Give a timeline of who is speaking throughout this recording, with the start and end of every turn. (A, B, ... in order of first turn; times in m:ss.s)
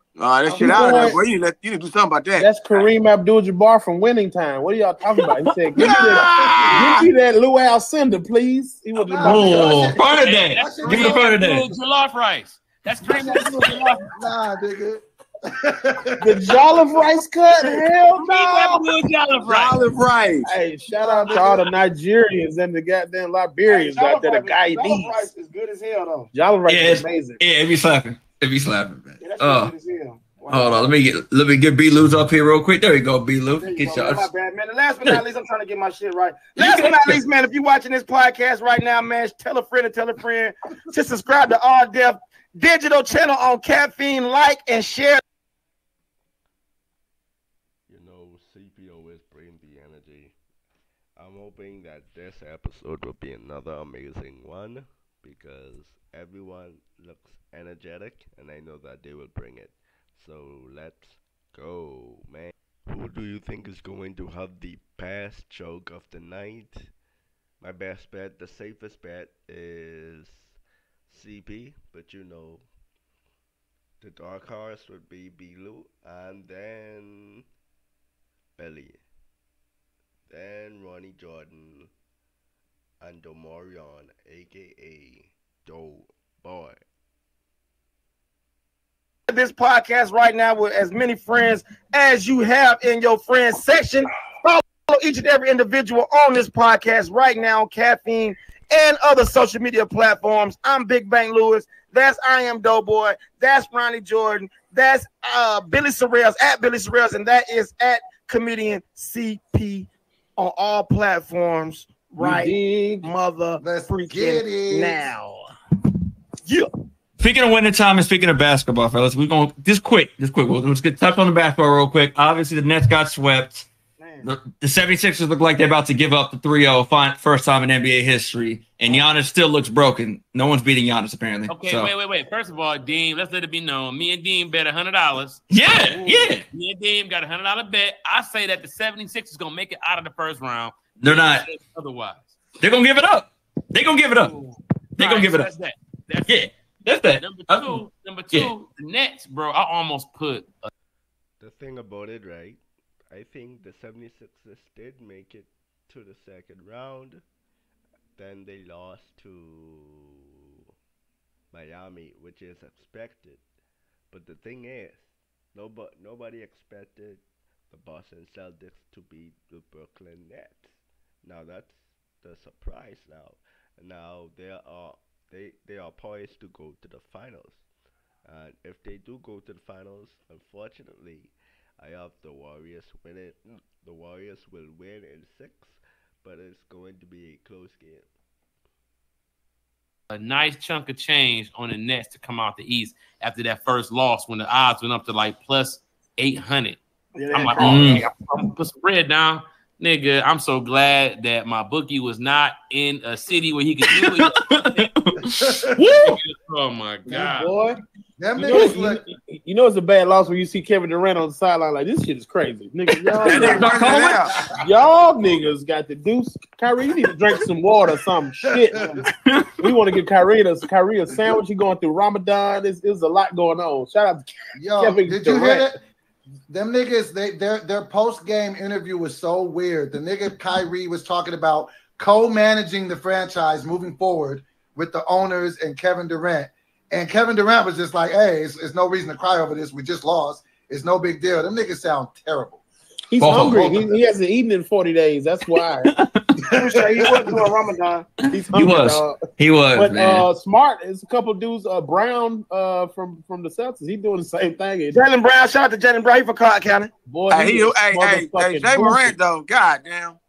0:00.2-0:02.8 A
0:00.5-0:01.2 B
0:02.4-0:09.9 B
0:05.8-0:06.9 C
0:05.8-0:07.0 A
0:06.3-0:06.8 D
0:09.0-0:11.2 D
0:09.2-0:11.7 C
0:09.9-0:14.1 E
0:13.1-0:13.4 D
0:14.1-0:16.6 D
0:16.2-0:18.3 B
0:18.2-0:19.8 E
0:18.2-0:18.8 A
0:19.4-0:20.5 A
0:20.4-0:25.3 B
0:21.0-0:21.6 D
0:21.3-0:21.6 A
0:23.7-0:26.3 F
0:26.3-0:27.4 B
0:26.7-0:29.7 C
0:29.2-0:30.9 F
0:30.5-0:34.3 C
0:33.6-0:45.2 F
0:36.5-0:37.2 C
0:47.9-0:50.3 G
0:51.2-1:06.9 G
1:07.6-1:10.5 G
1:11.1-1:12.7 G
1:14.0-1:17.4 G
1:18.6-1:19.0 G
1:20.3-1:21.9 G
1:23.0-1:26.8 G
1:29.3-1:55.4 F
1:52.2-1:53.1 B
1:53.6-1:55.1 D
1:57.2-2:03.7 C
2:04.0-2:04.3 F
2:04.2-2:11.9 C
2:11.5-2:15.4 E
2:15.5-2:16.4 C
2:15.9-2:16.3 F
2:16.0-2:22.3 E
2:21.0-2:21.5 C
2:22.6-2:24.4 C
2:25.0-2:25.5 C
2:25.0-2:26.4 E
2:26.3-2:28.5 C
2:27.2-2:30.7 E
2:31.4-2:37.2 G
2:38.1-2:40.2 G
2:41.5-2:43.4 G
2:44.1-2:57.6 G
2:58.2-3:08.1 G
3:10.1-3:16.8 E
3:17.2-3:18.2 F
3:17.3-3:24.3 E
3:17.6-3:18.0 C
3:23.9-3:26.2 C
3:25.4-3:25.7 D
3:25.8-3:27.5 E
3:27.1-3:27.8 B
3:28.2-3:29.0 D
3:28.4-3:33.7 B
3:33.1-3:34.3 C
3:33.2-3:34.3 A
3:34.6-3:38.8 B
3:38.7-3:39.0 D
3:38.7-3:39.0 F
3:39.2-3:39.7 C
3:39.6-3:45.6 B
3:44.6-3:45.8 D
3:46.5-4:02.6 D
4:03.1-4:05.9 B
4:03.2-4:03.9 C
4:05.8-4:06.3 C
4:06.5-4:08.1 F
4:08.2-4:10.2 C
4:08.3-4:09.2 B
4:09.7-4:15.0 B
4:14.9-4:16.9 F
4:17.1-4:19.2 B
4:17.3-4:20.2 A